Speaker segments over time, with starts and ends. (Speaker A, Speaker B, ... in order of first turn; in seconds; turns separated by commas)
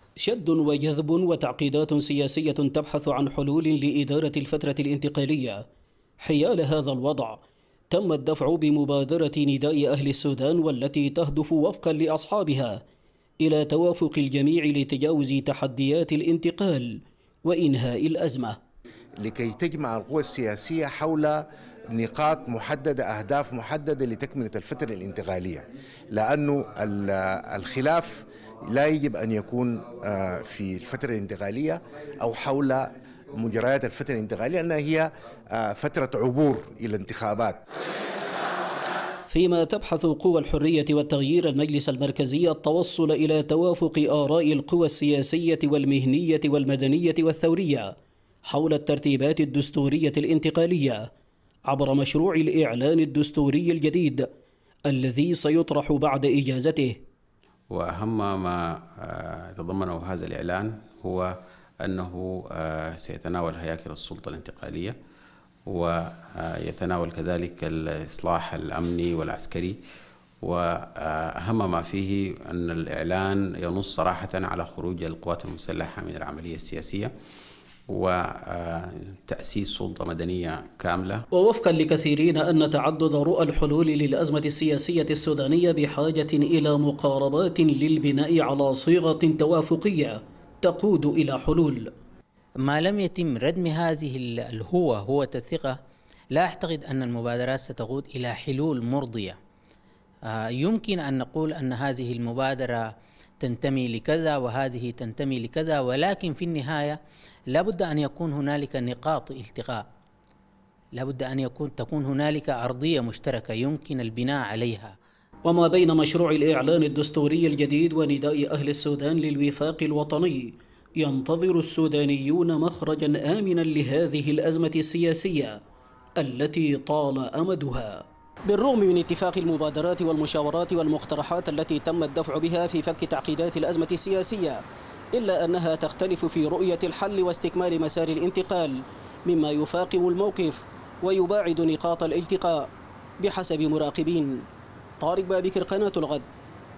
Speaker A: 0.2-5.6, Speaker A: 6.2-12.8, Speaker A: 13.4-18.6, Speaker B: 19.2-37.6, Speaker A: 39.3-47.9, Speaker A: 48.5-51.0, Speaker A: 51.7-54.3, Speaker A: 54.9-57.0, Speaker C: 57.7-61.3, Speaker C: 61.8-65.0, Speaker C: 65.7-69.8, Speaker C: 70.4-77.1, Speaker C: 77.9-81.2, Speaker A: 81.3-91.9, Speaker D: 92.7-95.8, Speaker D: 96.3-99.4, Speaker D: 100.3-102.8, Speaker D: 103.4-107.0, Speaker D: 107.5-109.8, Speaker D: 111.0-115.0, Speaker A: 115.5-125.6, Speaker A: 126.2-134.6, Speaker A: 135.1-142.7, Speaker A: 143.2-144.4, Speaker A: 145.0-146.2